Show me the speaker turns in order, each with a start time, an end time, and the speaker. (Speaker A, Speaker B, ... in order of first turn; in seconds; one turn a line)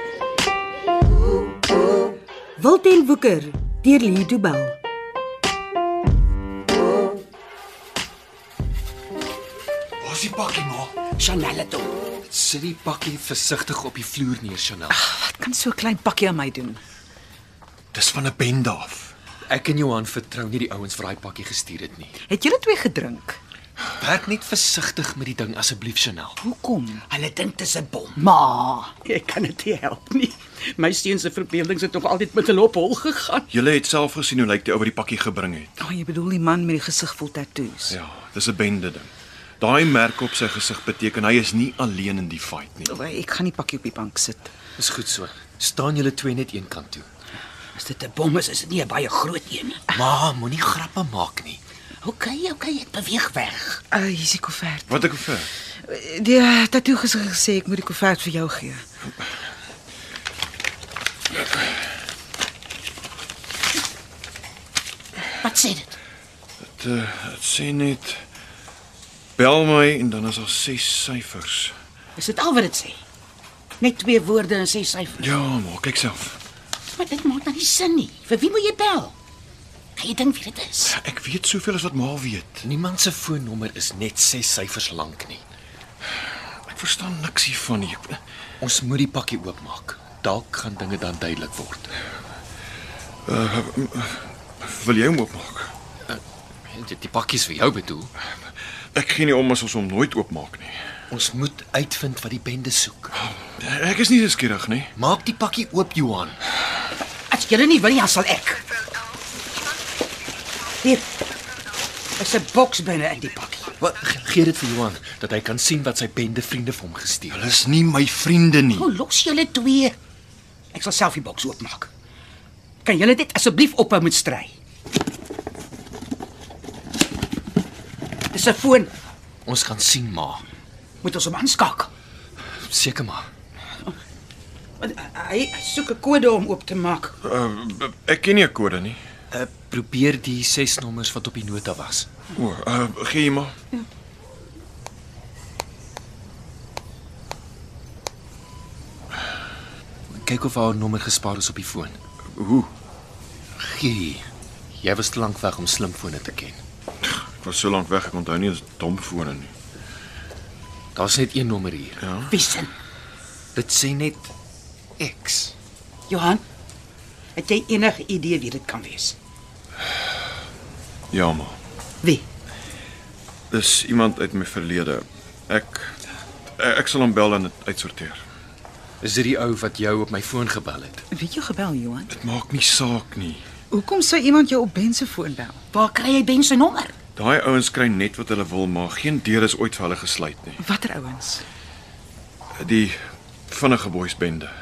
Speaker A: 2.6-4.8
Speaker B: 10.1-10.4
Speaker C: 10.2-10.9
Speaker D: 11.2-11.9
Speaker C: 12.2-15.0
Speaker E: 14.9-16.8
Speaker B: 17.9-19.1
Speaker C: 19.5-22.1
Speaker E: 22.3-23.4
Speaker C: 24.0-26.4
Speaker E: 26.4-27.0
Speaker D: 27.1-28.2
Speaker E: 28.2-28.9
Speaker D: 29.0-33.5
Speaker B: 33.5-35.8
Speaker E: 35.8-38.0
Speaker B: 37.9-42.9
Speaker E: 42.9-44.5
Speaker C: 44.8-47.1
Speaker D: 47.8-49.9
Speaker C: 49.9-51.6
Speaker D: 52.0-53.8
Speaker E: 53.9-55.2
Speaker B: 54.9-55.5
Speaker E: 55.8-58.8
Speaker D: 65.4-66.0
Speaker B: 66.8-68.2
Speaker B: 69.4-71.7
Speaker D: 72.2-73.0
Speaker D: 73.8-75.2
Speaker B: 75.2-76.4
Speaker D: 76.9-79.1
Speaker D: 80.0-81.0
Speaker B: 80.9-82.7
Speaker C: 82.6-85.4
Speaker B: 86.7-88.2
Speaker C: 88.6-91.9
Speaker B: 93.3-95.7
Speaker C: 96.1-98.1
Speaker B: 99.0-100.8
Speaker C: 101.1-103.1
Speaker B: 103.2-104.9
Speaker C: 105.0-106.4
Speaker D: 107.3-108.6
Speaker D: 112.2-113.7
Speaker C: 113.8-117.5
Speaker B: 117.3-118.9
Speaker D: 118.8-120.0
Speaker D: 120.7-121.9
Speaker D: 122.8-124.5
Speaker D: 128.3-128.9
Speaker C: 129.5-130.4
Speaker D: 131.0-131.9
Speaker C: 132.7-133.3
Speaker D: 134.8-137.1
Speaker B: 137.2-139.0
Speaker C: 139.3-142.1
Speaker B: 142.3-143.6
Speaker C: 150.1-152.0
Speaker B: 152.3-152.7
Speaker C: 153.6-154.3
Speaker C: 154.8-156.6
Speaker B: 157.1-159.5
Speaker C: 160.9-162.0
Speaker B: 162.0-162.3
Speaker D: 162.3-162.7
Speaker C: 163.6-164.3
Speaker C: 165.0-165.5
Speaker D: 166.1-166.4
Speaker D: 167.4-169.2
Speaker B: 171.1-171.6
Speaker B: 173.5-176.0
Speaker B: 176.6-178.2
Speaker C: 179.0-181.0
Speaker E: 181.1-182.1
Speaker B: 182.1-183.4
Speaker E: 183.7-185.6
Speaker D: 185.7-186.9
Speaker B: 187.2-190.6
Speaker E: 190.6-191.4
Speaker B: 192.6-193.0
Speaker B: 193.5-194.5